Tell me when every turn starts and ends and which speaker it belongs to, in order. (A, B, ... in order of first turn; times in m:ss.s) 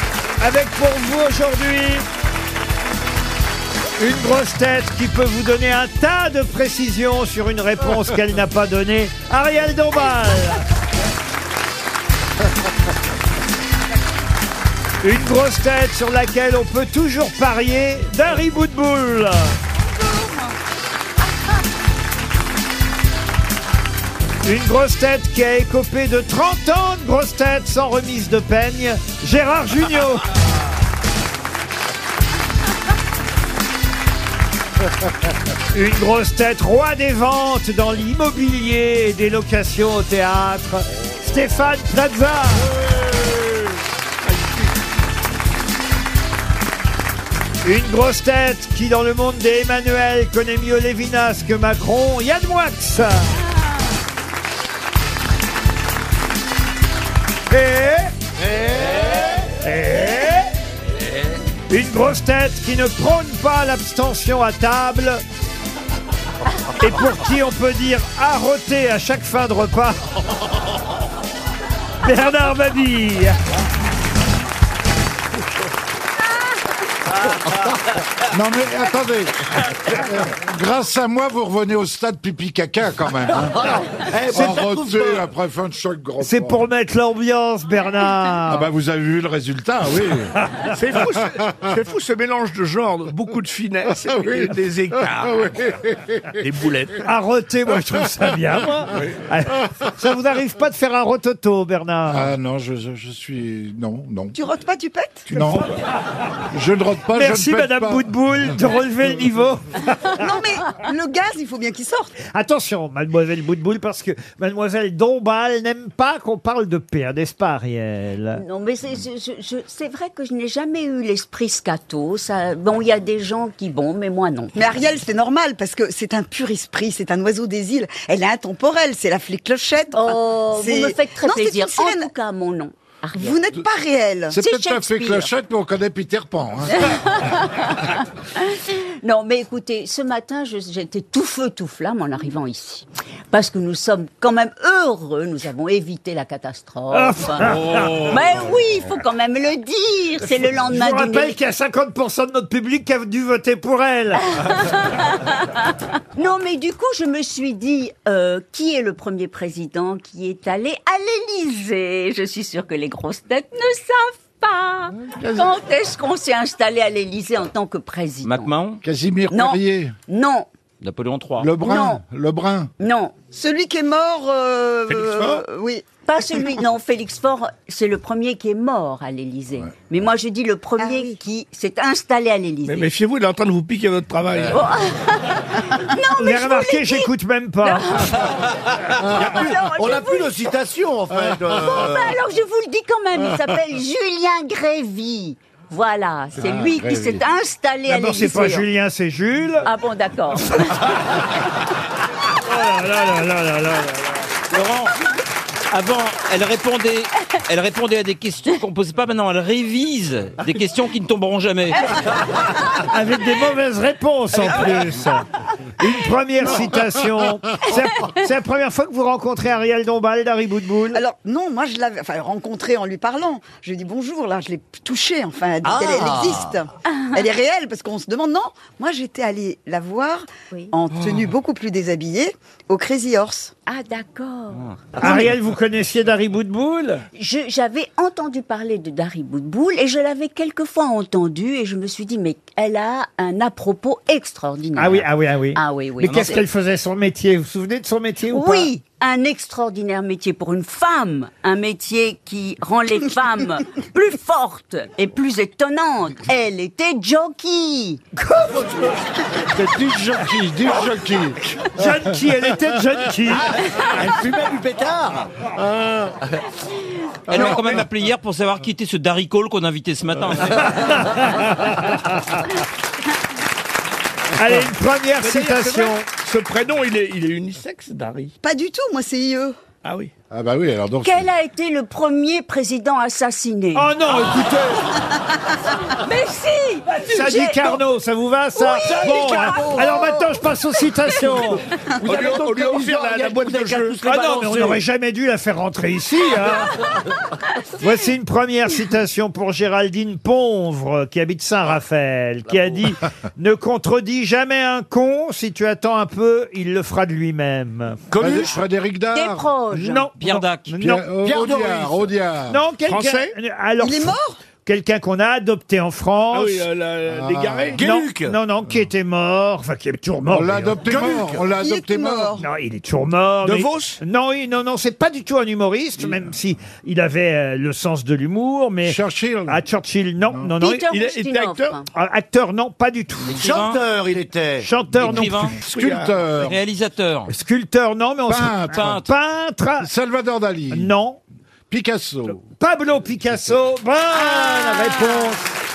0:00.4-0:02.0 A
0:04.0-0:10.6 A
0:15.0-0:19.6 A
0:24.4-0:30.3 A
0:35.7-0:42.7 A
0:44.3-0:44.7 B
0:47.6-0:53.3 A
0:57.5-0:58.1 A
0:58.4-0:59.3 C
0:59.6-1:00.5 A
1:01.7-1:05.2 A
1:06.8-1:10.0 A
1:12.0-1:13.4 A
1:18.3-1:23.6 D
1:23.6-1:25.3 C
1:24.2-1:26.6 D
1:26.2-1:28.7 A
1:28.5-1:30.4 D
1:30.7-1:35.4 B
1:34.1-1:36.2 D
1:36.4-1:37.1 B
1:37.0-1:42.3 A
1:42.1-1:44.4 D
1:44.3-1:45.3 E
1:45.3-1:45.6 D
1:45.3-1:45.7 B
1:46.5-1:48.1 D
1:47.1-1:50.3 A
1:50.2-1:52.2 E
1:52.3-1:58.4 A
1:58.4-2:04.8 F
2:04.6-2:12.1 E
2:10.0-2:13.4 F
2:13.2-2:14.4 E
2:14.3-2:16.9 D
2:14.4-2:15.3 F
2:16.8-2:31.4 F
2:26.9-2:28.1 A
2:30.6-2:34.3 A
2:34.5-2:35.1 F
2:36.2-2:48.5 F
2:45.0-2:45.5 D
2:48.2-2:48.8 G
2:48.8-2:49.9 D
2:49.3-2:50.5 F
2:50.8-2:51.5 G
2:51.4-2:52.7 D
2:51.6-2:52.0 F
2:52.8-2:53.2 F
2:53.3-2:56.6 E
2:54.9-2:55.4 B
2:56.0-3:02.9 F
3:00.8-3:01.2 E
3:02.7-3:04.7 B
3:04.5-3:07.1 F
3:06.2-3:07.8 A
3:07.6-3:08.4 F
3:09.0-3:12.2 C
3:09.1-3:10.4 F
3:11.6-3:18.7 F
3:16.4-3:17.2 D
3:17.9-3:19.7 A
3:19.6-3:20.8 F
3:22.4-3:24.0 A
3:24.5-3:24.9 G
3:25.7-3:32.0 G
3:32.6-3:35.2 A
3:35.8-3:41.0 A
3:40.9-3:53.5 E
3:46.9-3:47.2 F
3:53.7-3:54.7 F
3:55.0-3:57.0 A
3:57.2-4:06.4 F
4:04.8-4:08.7 A
4:06.0-4:06.4 G
4:08.3-4:18.0 F
4:18.3-4:18.6 A
4:19.4-4:22.3 D
4:21.8-4:23.6 A
4:24.0-4:25.3 C
4:25.5-4:26.1 D
4:27.3-4:31.0 G
4:27.3-4:27.8 D
4:30.7-4:32.4 A
4:34.3-4:36.1 A
4:35.2-4:38.3 B
4:38.4-4:39.6 E
4:39.8-4:40.1 B
4:40.3-4:41.3 D
4:41.0-4:43.9 F
4:43.8-4:44.9 A
4:45.7-4:47.8 F
4:47.0-4:51.6 A
4:48.6-4:50.2 F
4:49.2-4:49.9 E
4:50.8-4:51.3 F
4:52.0-4:54.8 C
4:52.0-4:54.0 B
4:54.0-4:56.8 A
4:57.8-5:08.0 A
5:08.1-5:08.6 C
5:08.2-5:09.5 D
5:09.1-5:10.1 F
5:09.7-5:11.0 A
5:10.2-5:10.7 G
5:10.8-5:12.6 D
5:11.2-5:12.1 C
5:12.5-5:16.7 A
5:12.8-5:13.4 B
5:13.8-5:14.4 E
5:16.3-5:17.9 B
5:17.1-5:17.8 D
5:17.7-5:20.8 A
5:17.8-5:18.4 C
5:20.3-5:22.4 D
5:20.9-5:22.4 E
5:22.4-5:30.8 A
5:23.4-5:24.0 B
5:28.8-5:29.6 D
5:30.2-5:30.5 D
5:30.6-5:31.9 F
5:30.9-5:31.8 B
5:31.9-5:33.5 A
5:33.2-5:34.7 C
5:33.3-5:33.8 G
5:34.6-5:35.6 A
5:34.9-5:35.6 G
5:35.0-5:36.6 D
5:35.7-5:36.2 B
5:36.4-5:37.3 G
5:37.3-5:39.9 A
5:38.3-5:39.1 D
5:38.8-5:39.0 G
5:39.8-5:40.9 D
5:40.7-5:41.2 A
5:41.7-5:42.4 D
5:42.4-5:45.6 A
5:44.3-5:45.2 F